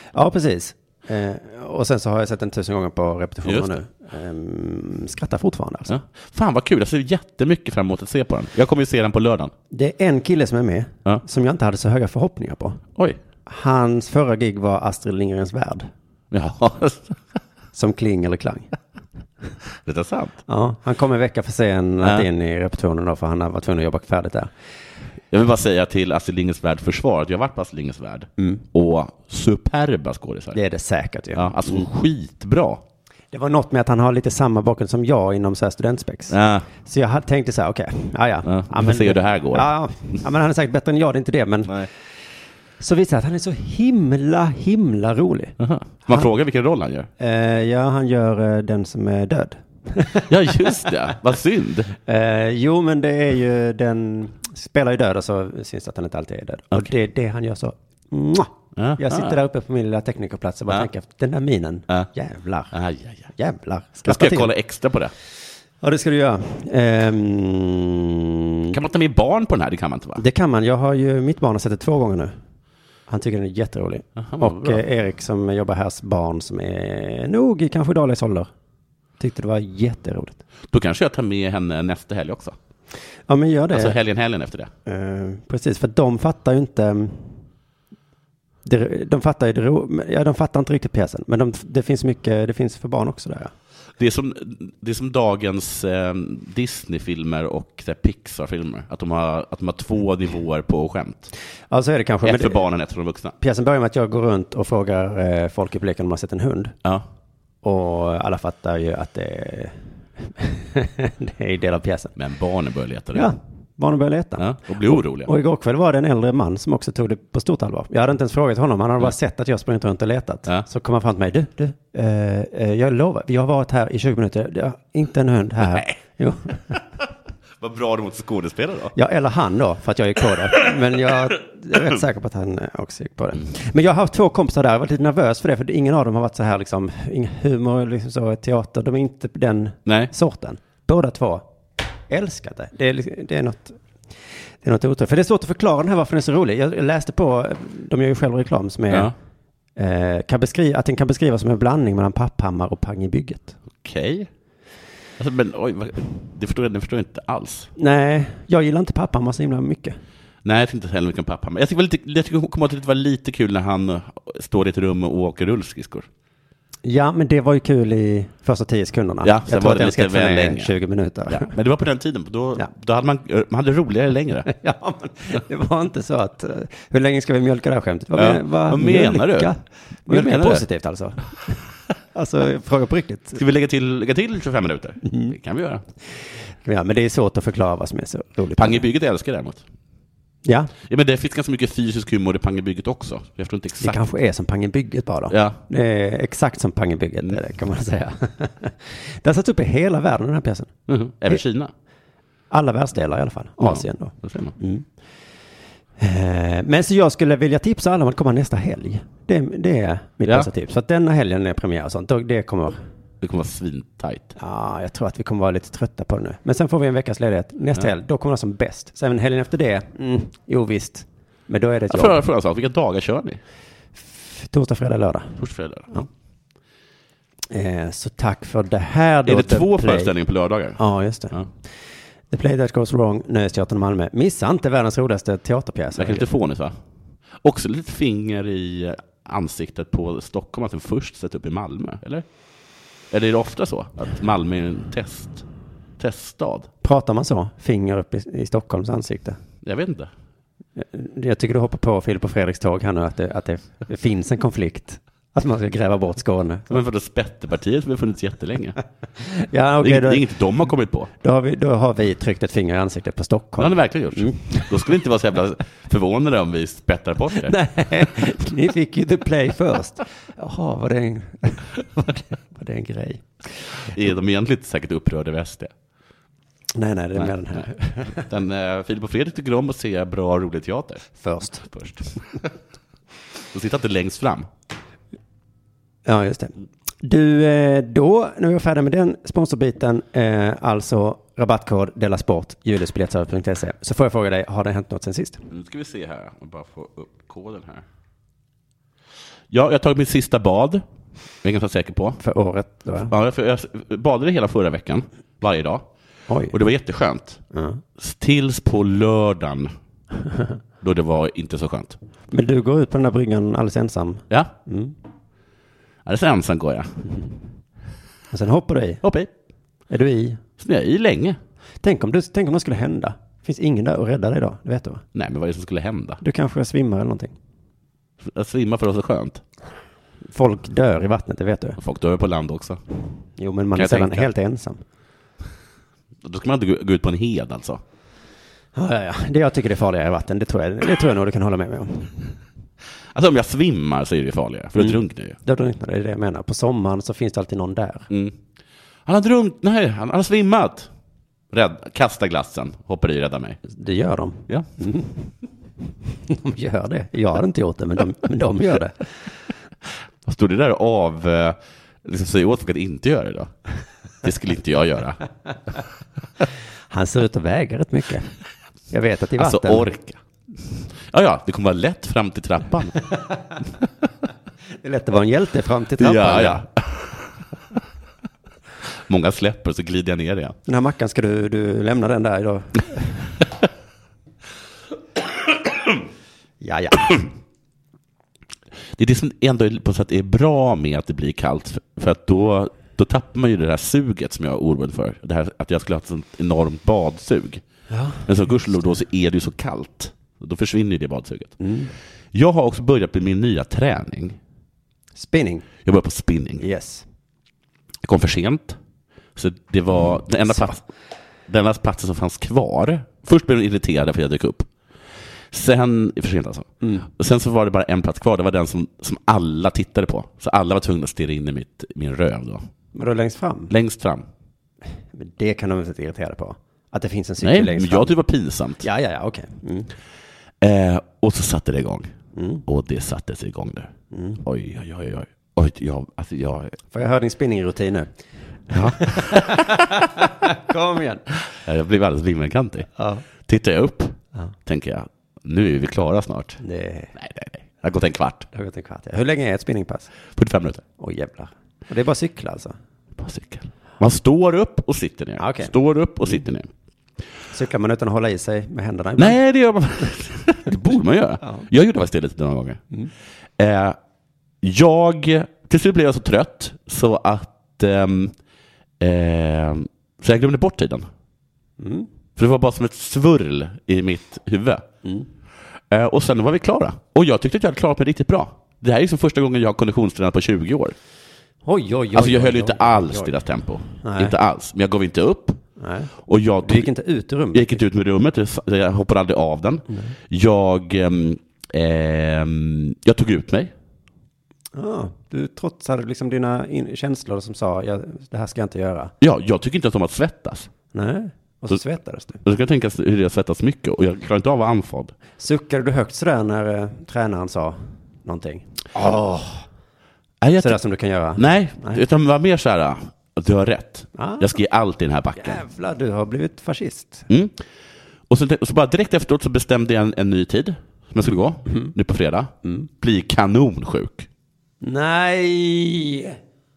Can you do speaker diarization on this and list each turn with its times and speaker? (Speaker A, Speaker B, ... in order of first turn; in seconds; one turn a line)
Speaker A: 0.1-6.0
Speaker B: 3.5-3.7
Speaker B: 5.9-9.5
Speaker A: 9.7-12.8
Speaker A: 13.5-15.9
Speaker B: 16.3-17.2
Speaker A: 17.7-18.7
Speaker B: 19.9-20.4
Speaker A: 20.5-24.5
Speaker B: 25.3-30.6
Speaker A: 30.5-31.9
Speaker B: 31.3-32.8
Speaker A: 33.3-41.9
Speaker B: 36.3-36.7
Speaker B: 38.5-39.7
Speaker A: 42.8-45.6
Speaker B: 45.6-47.1
Speaker A: 47.2-50.3
Speaker B: 50.3-51.9
Speaker A: 52.1-62.7
Speaker B: 58.8-59.4
Speaker B: 62.7-63.3
Speaker A: 63.4-64.5
Speaker B: 64.1-65.1
Speaker A: 65.8-68.7
Speaker B: 68.7-70.2
Speaker A: 70.2-72.3
Speaker A: 73.1-78.5
Speaker B: 74.2-74.8
Speaker A: 79.2-80.4
Speaker B: 80.7-82.6
Speaker A: 83.3-84.0
Speaker B: 83.7-84.7
Speaker A: 84.9-87.3
Speaker A: 88.6-93.5
Speaker B: 94.0-101.3
Speaker A: 101.7-102.7
Speaker B: 102.2-103.3
Speaker A: 103.4-106.8
Speaker A: 107.6-112.1
Speaker B: 112.2-113.3
Speaker A: 113.1-126.8
Speaker B: 114.4-115.3
Speaker B: 127.6-128.9
Speaker A: 128.9-141.5
Speaker B: 139.9-140.1
Speaker A: 142.1-143.8
Speaker A: 144.6-149.1
Speaker A: 149.8-153.6
Speaker B: 153.8-154.3
Speaker B: 155.2-157.7
Speaker A: 157.8-160.0
Speaker B: 160.4-166.1
Speaker A: 166.8-171.6
Speaker B: 169.2-170.7
Speaker B: 171.3-174.5
Speaker A: 174.5-181.6
Speaker B: 178.2-179.5
Speaker B: 180.1-180.7
Speaker A: 182.1-183.4
Speaker B: 183.4-185.8
Speaker A: 185.1-185.4
Speaker A: 186.6-188.9
Speaker B: 188.6-189.6
Speaker A: 190.4-190.7
Speaker B: 190.9-194.0
Speaker A: 193.8-200.7
Speaker B: 195.3-195.6
Speaker B: 200.9-201.7
Speaker A: 202.5-204.8
Speaker B: 203.6-204.6
Speaker A: 206.0-212.8
Speaker B: 213.2-214.3
Speaker A: 214.4-222.2
Speaker B: 221.9-223.4
Speaker A: 224.2-225.4
Speaker B: 225.4-226.0
Speaker A: 227.5-230.1
Speaker B: 229.3-230.8
Speaker A: 230.8-231.4
Speaker A: 232.3-236.3
Speaker B: 235.9-236.8
Speaker B: 237.4-242.3
Speaker B: 243.1-245.4
Speaker B: 246.0-246.7
Speaker A: 246.8-249.4
Speaker B: 249.6-250.1
Speaker A: 250.8-256.8
Speaker B: 256.7-258.8
Speaker A: 259.2-260.3
Speaker B: 259.8-261.1
Speaker A: 261.2-264.7
Speaker B: 263.6-267.5
Speaker A: 267.4-273.3
Speaker B: 273.9-275.7
Speaker A: 276.8-278.3
Speaker B: 277.2-277.6
Speaker B: 278.2-281.1
Speaker A: 281.2-281.7
Speaker B: 281.6-282.5
Speaker B: 283.5-284.5
Speaker A: 286.1-295.4
Speaker B: 295.5-297.9
Speaker B: 299.5-300.8
Speaker B: 301.4-302.2
Speaker A: 302.2-303.1
Speaker B: 303.1-305.9
Speaker A: 306.3-306.5
Speaker B: 306.5-307.4
Speaker A: 307.5-307.8
Speaker B: 308.0-309.7
Speaker B: 310.8-312.0
Speaker A: 312.3-314.9
Speaker B: 316.1-316.9
Speaker A: 318.3-319.0
Speaker B: 319.0-319.3
Speaker A: 319.9-320.4
Speaker B: 320.6-321.4
Speaker A: 321.8-325.0
Speaker B: 325.1-326.2
Speaker A: 326.2-327.3
Speaker B: 328.2-329.4
Speaker A: 330.3-331.8
Speaker B: 331.8-332.8
Speaker A: 333.4-334.8
Speaker B: 333.8-334.3
Speaker B: 336.2-337.8
Speaker A: 338.8-342.4
Speaker B: 343.1-345.4
Speaker A: 344.8-348.1
Speaker B: 348.1-348.4
Speaker B: 349.1-350.9
Speaker B: 351.5-353.6
Speaker A: 353.7-355.3
Speaker A: 356.3-359.0
Speaker B: 360.2-363.5
Speaker B: 364.2-365.2
Speaker A: 366.9-368.3
Speaker A: 368.9-369.9
Speaker B: 369.4-373.0
Speaker A: 374.8-376.6
Speaker B: 376.0-377.3
Speaker B: 379.1-380.6
Speaker A: 380.7-383.3
Speaker A: 386.6-387.2
Speaker B: 389.0-397.6
Speaker A: 397.9-398.3
Speaker B: 398.3-401.6
Speaker A: 401.6-401.9
Speaker B: 402.3-404.4
Speaker A: 405.2-405.7
Speaker B: 405.9-406.6
Speaker A: 406.6-407.1
Speaker B: 408.0-408.8
Speaker B: 409.4-410.8
Speaker B: 411.5-414.7
Speaker B: 415.5-422.7
Speaker A: 422.9-423.7
Speaker B: 423.7-424.3
Speaker A: 425.1-428.1
Speaker B: 427.4-428.9
Speaker A: 428.8-429.9
Speaker B: 430.6-432.1
Speaker A: 432.4-432.6
Speaker B: 432.7-433.9
Speaker A: 434.1-434.4
Speaker B: 434.4-436.8
Speaker A: 436.9-438.1
Speaker B: 438.7-440.0
Speaker A: 438.8-441.3
Speaker B: 441.5-442.9
Speaker A: 443.0-443.2
Speaker B: 443.4-446.6
Speaker A: 446.6-447.1
Speaker B: 447.1-448.5
Speaker A: 448.5-450.1
Speaker B: 450.4-450.8
Speaker A: 451.0-452.8
Speaker B: 453.2-456.7
Speaker A: 455.4-455.7
Speaker A: 457.5-459.4
Speaker B: 459.2-462.8
Speaker B: 463.6-464.0
Speaker B: 464.6-468.4
Speaker B: 469.0-471.1
Speaker A: 471.8-472.1
Speaker B: 472.4-474.9
Speaker B: 475.9-481.0
Speaker A: 481.6-483.3
Speaker B: 482.1-485.6
Speaker A: 484.0-484.3
Speaker A: 485.8-486.1
Speaker B: 486.2-486.9
Speaker A: 486.6-487.8
Speaker B: 487.5-493.7
Speaker A: 494.7-499.1
Speaker B: 499.2-500.7
Speaker A: 500.9-502.4
Speaker B: 502.4-505.1
Speaker A: 505.4-509.6
Speaker B: 510.4-510.8
Speaker A: 510.6-512.0
Speaker B: 511.4-515.6
Speaker A: 514.2-514.6
Speaker A: 515.4-517.3
Speaker B: 517.3-517.6
Speaker B: 518.3-524.3
Speaker A: 524.8-526.4